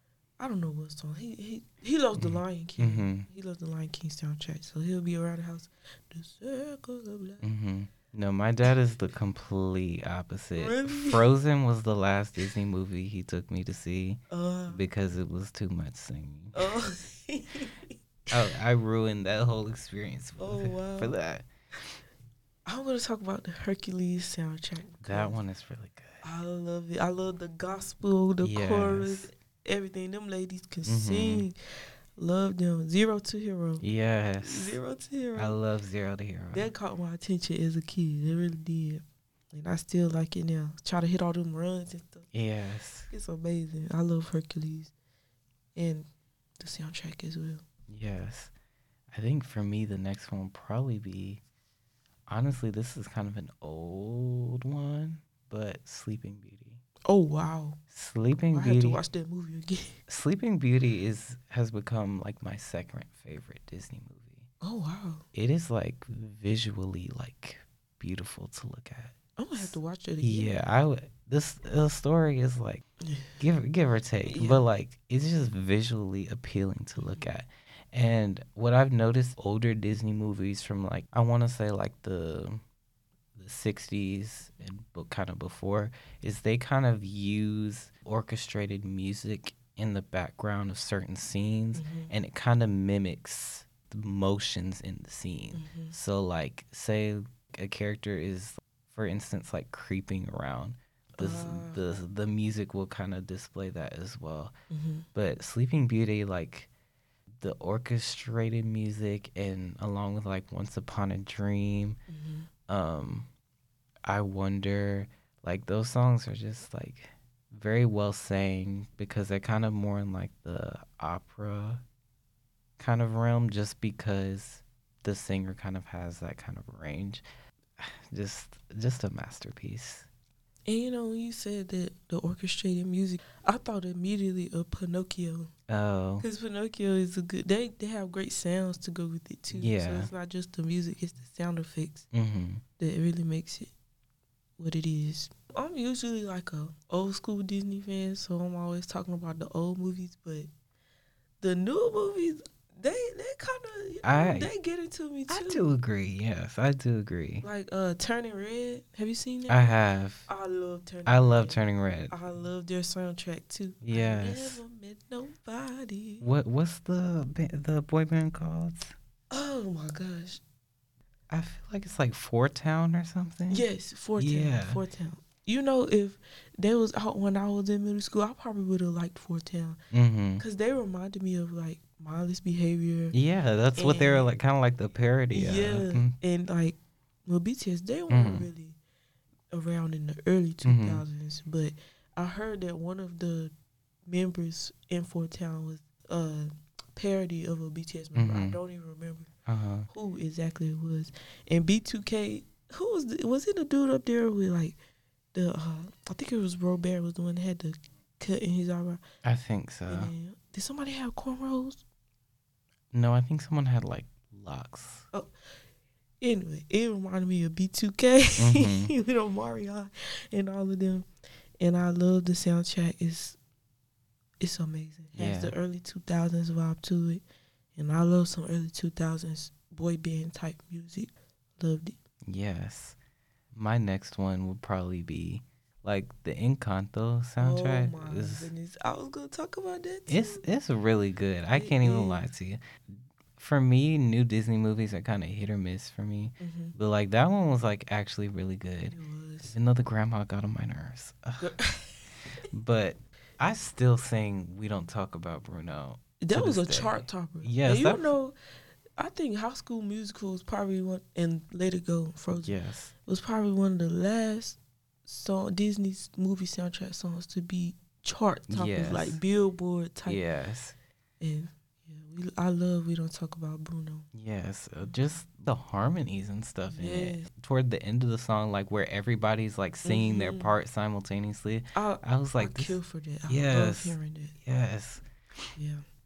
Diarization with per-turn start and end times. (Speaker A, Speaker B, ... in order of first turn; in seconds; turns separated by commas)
Speaker A: 0.4-7.4, Speaker B: 2.1-3.2, Speaker B: 7.4-16.7, Speaker A: 10.5-11.2, Speaker A: 14.3-14.8, Speaker A: 16.5-17.9, Speaker B: 18.3-21.4, Speaker A: 20.4-21.1, Speaker A: 22.6-25.4, Speaker B: 25.0-26.2, Speaker A: 26.2-31.6, Speaker B: 28.4-29.3, Speaker B: 30.8-31.5, Speaker A: 32.1-33.8, Speaker B: 33.8-34.8, Speaker A: 34.4-35.6, Speaker B: 35.4-36.7, Speaker A: 36.5-42.3, Speaker B: 42.3-43.1, Speaker A: 43.1-44.9, Speaker A: 45.7-47.6, Speaker B: 47.9-48.5, Speaker B: 49.1-51.4, Speaker B: 52.3-56.8, Speaker A: 57.1-57.8, Speaker B: 57.9-59.0, Speaker A: 58.5-60.0, Speaker B: 60.1-64.5, Speaker A: 64.6-65.2, Speaker B: 65.3-72.8, Speaker A: 69.4-70.6, Speaker A: 73.0-73.4, Speaker B: 73.4-82.6, Speaker A: 74.3-74.7, Speaker A: 77.0-77.3, Speaker B: 83.3-104.5, Speaker A: 91.7-92.1, Speaker A: 95.5-95.9, Speaker A: 101.2-101.8, Speaker A: 104.7-105.1, Speaker B: 105.1-106.7, Speaker B: 107.4-112.0, Speaker A: 112.1-112.5, Speaker B: 112.7-113.3, Speaker B: 114.0-121.8, Speaker B: 122.8-127.2, Speaker B: 127.8-130.1, Speaker A: 130.7-135.5, Speaker B: 135.7-136.2, Speaker A: 136.2-142.1, Speaker B: 139.5-140.1, Speaker B: 142.1-142.6, Speaker A: 142.8-143.7, Speaker A: 144.6-150.5, Speaker A: 151.4-155.7, Speaker B: 154.0-154.5, Speaker B: 155.3-157.4, Speaker A: 157.4-166.2, Speaker B: 159.5-160.3, Speaker B: 161.1-162.1, Speaker B: 163.8-164.6, Speaker B: 166.2-168.9, Speaker A: 169.3-170.4, Speaker B: 171.3-173.7, Speaker A: 173.5-179.8, Speaker B: 174.2-174.8, Speaker B: 179.9-180.4, Speaker A: 180.4-183.2, Speaker B: 183.1-186.2, Speaker A: 183.8-184.2, Speaker A: 185.3-188.8, Speaker B: 188.1-188.5, Speaker A: 189.5-193.5, Speaker B: 190.6-191.0, Speaker A: 194.1-199.3, Speaker B: 198.1-198.6, Speaker B: 199.5-199.9, Speaker A: 199.9-204.8, Speaker A: 205.3-209.0, Speaker B: 209.2-210.1, Speaker A: 209.9-211.8, Speaker B: 212.9-215.1, Speaker A: 216.2-221.1, Speaker B: 218.4-218.9, Speaker A: 221.6-223.4, Speaker A: 224.4-227.2, Speaker B: 225.2-225.5, Speaker A: 227.7-232.0, Speaker B: 232.3-233.0, Speaker B: 233.5-238.5, Speaker A: 237.4-240.4, Speaker B: 240.1-242.6, Speaker A: 241.5-242.2, Speaker B: 243.4-251.5, Speaker A: 246.4-246.7, Speaker A: 248.8-249.5, Speaker A: 251.4-252.1, Speaker B: 252.5-258.1, Speaker A: 256.2-258.3, Speaker A: 259.0-270.2, Speaker B: 262.3-262.9, Speaker B: 268.5-269.2, Speaker B: 270.1-270.8, Speaker A: 271.2-274.1, Speaker B: 274.1-282.8, Speaker A: 276.7-277.3, Speaker A: 279.8-280.5, Speaker A: 281.7-284.3, Speaker B: 283.3-285.0, Speaker A: 285.6-285.8